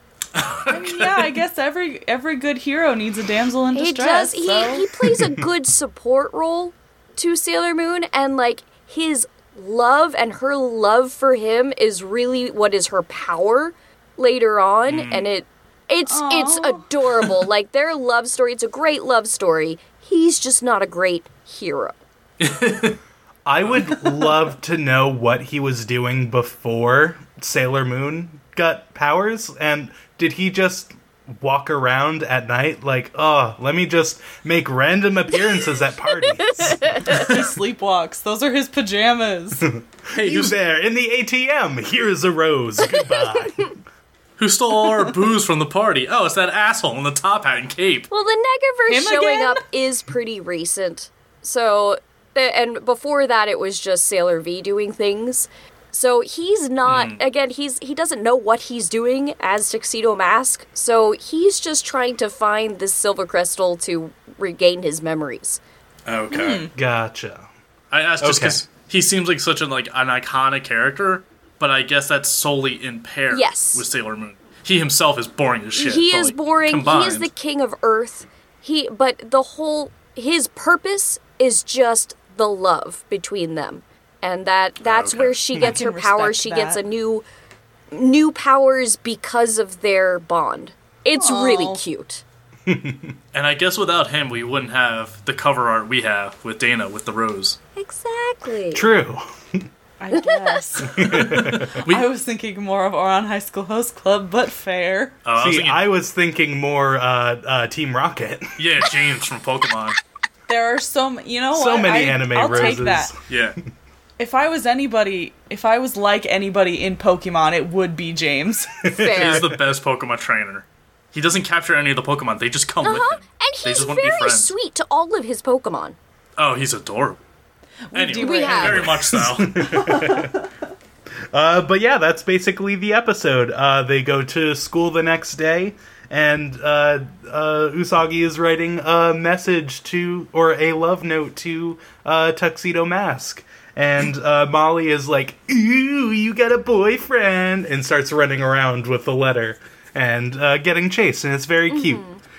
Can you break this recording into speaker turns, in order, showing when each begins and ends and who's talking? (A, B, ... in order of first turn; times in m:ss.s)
0:00.3-0:01.3 A
0:00.7-0:04.9 B
0:03.7-0:22.0 C
0:14.9-0:15.3 A
0:16.1-0:16.9 B
0:22.4-0:23.0 A
0:23.4-0:37.0 D
0:23.7-0:24.3 A
0:36.1-0:37.4 C
0:37.0-0:39.7 B
0:39.6-0:43.8 D
0:40.1-0:40.5 A
0:43.0-0:43.5 C
0:44.4-0:48.1 A
0:48.1-1:05.6 C
0:48.9-0:49.6 B
0:56.8-0:57.2 A
1:06.0-1:06.7 A
1:06.3-1:06.7 B
1:06.7-1:07.5 D
1:07.9-1:17.3 A
1:08.2-1:08.6 D
1:13.3-1:13.8 C
1:15.7-1:27.2 C
1:24.8-1:25.4 A
1:25.6-1:26.8 B
1:27.9-1:32.2 C
1:31.2-1:31.8 B
1:32.6-1:33.2 D
1:33.3-1:37.6 A
1:37.8-1:38.8 C
1:38.7-1:39.6 D
1:40.0-1:45.1 B
1:40.9-1:41.7 D
1:41.0-1:42.0 A
1:45.2-1:45.8 A
1:45.4-1:48.8 D
1:48.6-1:50.0 A
1:50.5-1:53.1 B
1:51.5-1:53.2 D
1:53.3-1:53.6 A
1:54.2-1:58.7 B
1:58.8-1:59.5 D
1:58.9-1:59.5 C
1:59.0-2:04.5 A
2:02.8-2:06.0 C
2:06.4-2:07.2 A
2:07.9-2:08.9 B
2:07.9-2:09.7 A
2:08.2-2:09.0 C
2:08.9-2:10.4 D
2:09.6-2:10.4 B
2:11.3-2:32.0 D
2:31.7-2:32.2 C